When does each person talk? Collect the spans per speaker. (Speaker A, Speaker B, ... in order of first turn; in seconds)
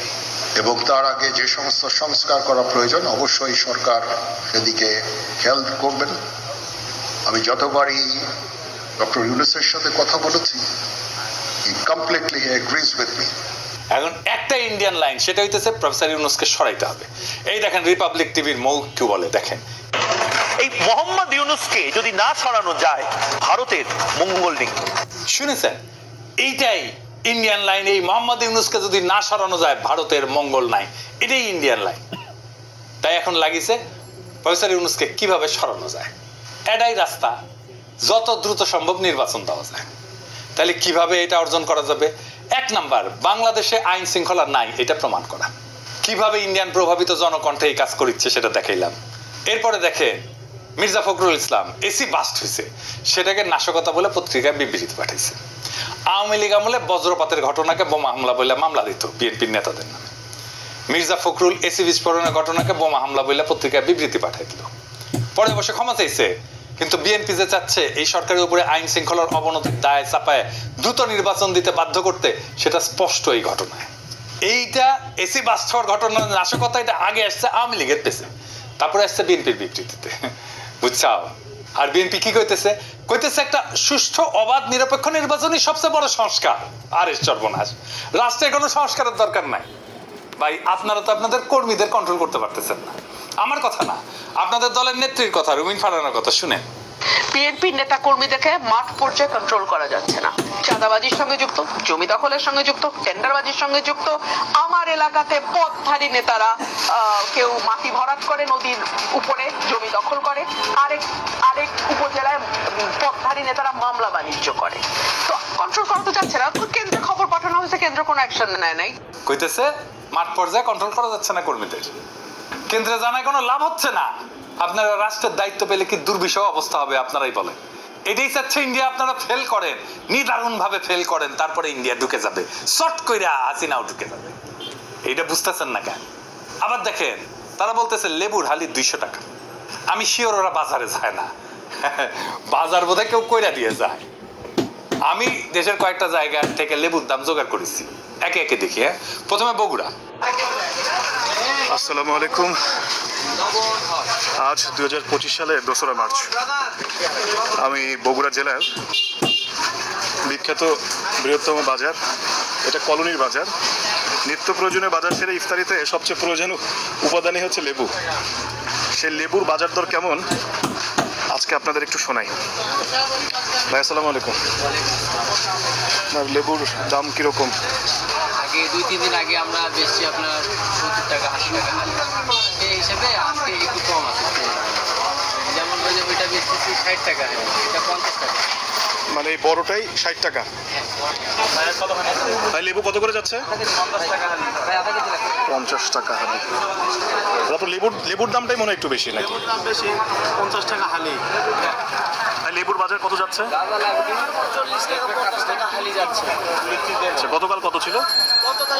Speaker A: 0.6-6.2, 7.3-8.2, 9.0-10.6, 11.7-13.3
Speaker B: 13.9-19.6, 25.3-25.8, 26.4-32.0, 33.0-33.8, 34.4-36.1, 36.7-37.3, 38.0-39.9, 40.6-45.5, 46.0-48.9, 49.5-50.2, 50.8-55.4, 56.1-60.1, 60.9-64.7, 65.3-73.9, 74.5-78.3, 78.8-80.1, 80.8-89.7, 90.4-96.7, 119.3-121.9, 122.7-134.3, 135.1-136.0, 136.6-139.2, 139.9-141.3, 141.8-144.0, 145.1-149.9
Speaker C: 20.6-24.7
Speaker D: 97.3-118.9
Speaker E: 151.7-152.5, 154.4-156.3, 157.6-158.7, 160.2-161.9, 162.6-163.5, 164.2-167.9, 168.9-170.2, 171.3-172.3, 173.7-174.4, 176.1-177.5, 189.1-190.4, 192.5-193.5, 195.5-196.5, 197.5-199.6, 200.6-200.9, 202.4-203.5, 207.2-208.0
Speaker F: 178.4-184.8, 185.5-188.4, 204.9-205.4